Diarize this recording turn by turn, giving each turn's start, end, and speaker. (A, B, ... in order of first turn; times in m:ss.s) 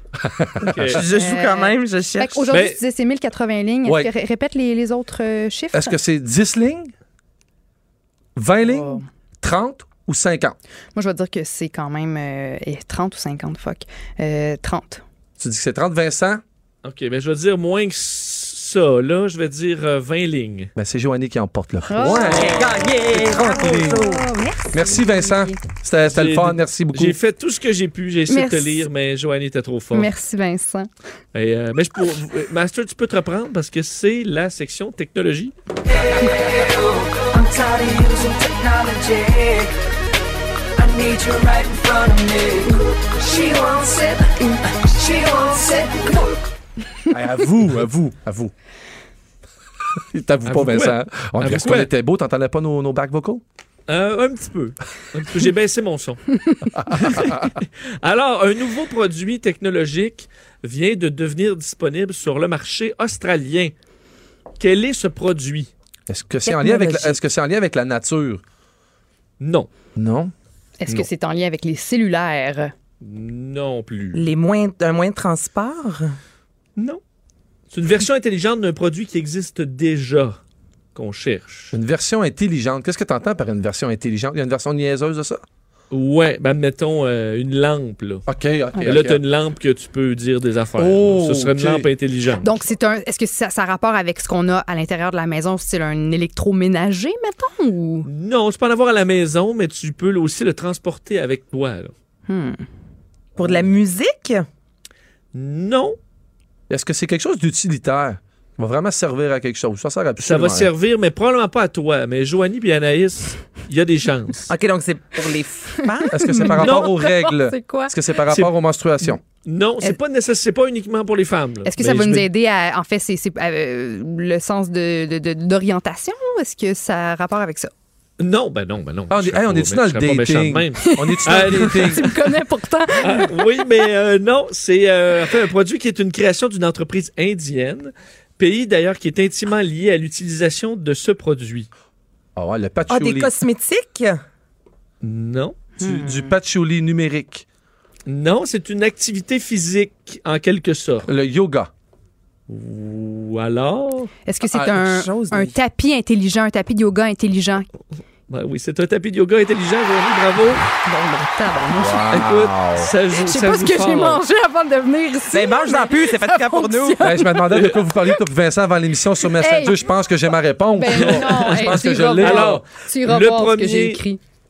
0:00.2-0:01.0 A
0:00.7-0:01.0 B
0:00.8-0:02.5 C
0:01.1-0:06.0 D
0:02.5-0:02.8 B
0:03.8-0:04.1 A
0:05.7-0:06.9 A
0:08.4-0:10.6 A
0:08.6-0:09.0 D
0:11.0-0:15.0 D
0:15.4-0:16.4 A
0:16.8-0:20.7 B
0:20.8-0:24.1 A
0:21.9-0:22.5 D
0:22.2-0:24.2 C
0:23.3-0:25.6 D
0:24.7-0:27.2 A
0:26.0-0:30.1 B
0:28.3-0:28.9 D
0:29.9-0:30.9 D
0:31.3-0:35.5 B
0:35.9-0:39.7 E
0:40.8-0:46.4 E
0:47.1-0:48.5 A
0:50.0-0:53.4 A
0:50.5-0:51.9 B
0:53.9-0:56.2 B
0:56.7-0:57.6 A
0:56.9-1:03.7 B
1:04.6-1:05.7 B
1:06.1-1:08.4 A
1:06.5-1:07.1 C
1:06.8-1:07.1 D
1:09.4-1:09.7 B
1:10.0-1:10.3 A
1:10.8-1:12.7 D
1:13.0-1:14.3 B
1:14.1-1:16.2 C
1:17.7-1:20.4 B
1:21.0-1:21.8 B
1:21.7-1:25.4 A
1:25.9-1:28.2 B
1:28.3-1:29.2 A
1:28.8-1:32.5 B
1:30.8-1:31.9 A
1:32.4-1:38.1 D
1:38.1-1:41.9 B
1:42.3-1:42.7 D
1:43.4-1:44.5 C
1:45.3-1:46.0 B
1:46.7-1:50.7 A
1:50.2-1:54.5 B
1:54.5-1:56.4 C
1:56.0-1:57.9 D
1:56.1-1:59.2 A
1:56.6-1:56.9 B
1:59.4-2:02.3 B
2:01.6-2:07.7 D
2:08.2-2:12.0 B
2:09.1-2:12.1 A
2:10.8-2:13.4 D
2:13.0-2:21.7 B
2:22.4-2:23.3 A
2:22.9-2:24.2 C
2:25.0-2:25.6 B
2:25.8-2:26.3 D
2:25.8-2:27.4 A
2:28.1-2:31.1 B
2:31.0-2:31.7 A
2:32.5-2:34.1 B
2:34.3-2:37.7 D
2:34.5-2:34.8 A
2:34.7-2:35.6 C
2:38.3-2:40.6 B
2:40.8-2:42.2 D
2:41.8-2:42.9 A
2:42.1-2:44.2 B
2:43.1-2:47.5 D
2:45.3-2:47.0 C
2:47.0-2:52.6 A
2:49.4-2:49.8 D
2:50.8-2:54.2 D
2:50.9-2:54.0 B